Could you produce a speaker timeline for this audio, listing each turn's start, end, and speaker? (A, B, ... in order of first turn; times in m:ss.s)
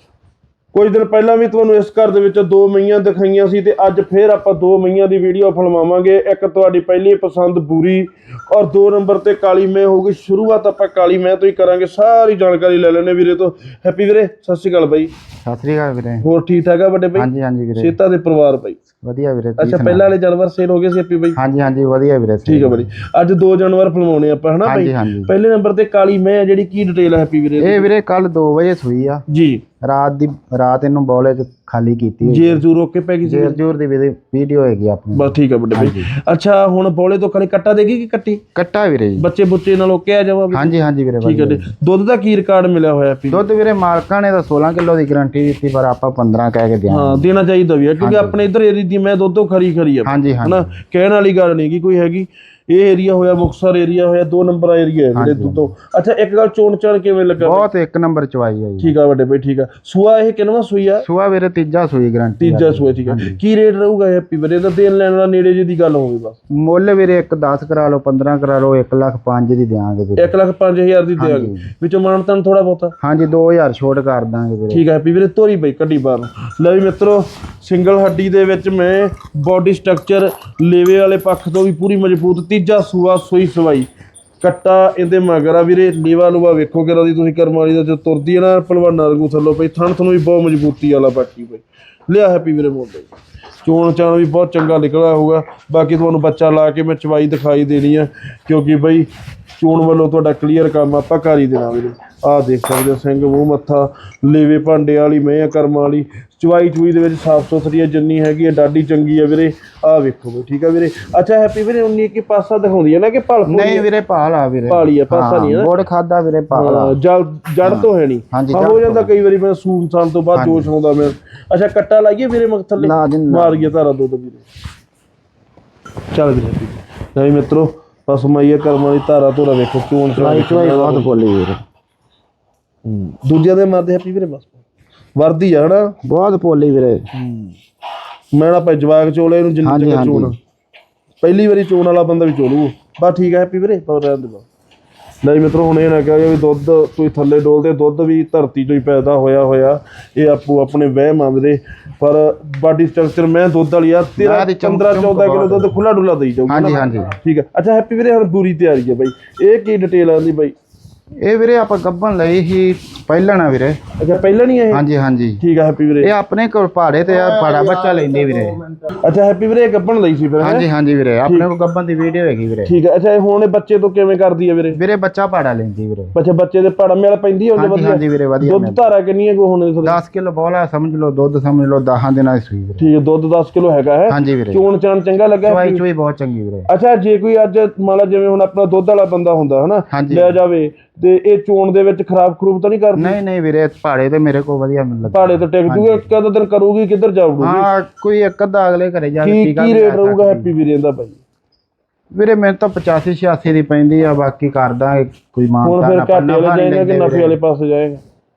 0:00.7-0:15.1 A
0:15.4-0:16.2 B
0:16.2-0:18.8 A
0:17.2-0:18.0 B
0:19.0-0:20.1 B
0:19.6-0:21.4 A
0:21.3-0:22.9 B
0:22.4-0:27.9 A
0:24.6-0:25.3 B
0:27.6-0:29.2 B
0:29.3-0:29.6 A
0:29.8-0:32.6 B
0:32.2-0:33.6 A
0:33.2-0:36.1 B
0:35.1-0:38.4 A
0:38.6-0:39.3 B
0:39.2-0:43.5 A
0:40.5-0:41.7 B
0:43.3-0:47.3 B
0:46.9-0:57.7 A
0:48.0-0:48.4 B
0:50.0-0:50.7 B
0:55.2-0:55.7 B
0:57.4-0:58.9 B
0:58.8-1:01.1 A
1:01.0-1:03.4 B
1:02.4-1:06.4 A
1:06.5-1:10.3 B
1:10.2-1:12.9 A
1:11.2-1:11.7 B
1:13.0-1:14.8 B
1:14.7-1:23.9 A
1:24.4-1:33.1 A
1:33.6-1:53.9 A
1:53.5-1:57.0 B
1:54.7-1:55.8 A
1:56.5-2:04.4 A
1:57.6-1:59.1 B
2:00.3-2:00.7 B
2:02.8-2:03.8 B
2:06.1-2:11.1 A
2:10.1-2:11.6 B
2:12.8-2:14.6 A
2:15.2-2:16.0 A
2:16.0-2:17.2 B
2:17.2-2:17.5 A
2:18.3-2:20.4 A
2:19.6-2:20.3 B
2:21.2-2:24.4 A
2:25.2-2:40.6 A
2:34.2-2:35.8 B
2:36.5-2:37.2 B
2:41.2-2:43.8 B
2:44.0-2:44.8 A
2:44.7-2:45.4 B
2:45.4-2:46.1 A
2:46.0-2:48.6 B
2:49.0-2:50.7 A
2:50.4-2:52.8 B
2:52.6-2:54.8 A
2:54.7-2:56.2 B
2:56.2-3:00.0 A
2:57.6-2:58.9 B
2:59.8-3:02.9 B
3:02.8-3:05.8 A
3:04.1-3:04.7 B
3:05.4-3:06.7 B
3:06.7-3:13.2 A
3:09.9-3:10.4 B
3:13.0-3:16.1 B
3:15.1-3:17.7 A
3:17.4-3:20.5 B
3:19.2-3:21.2 A
3:22.1-3:27.4 B
3:25.6-3:28.0 A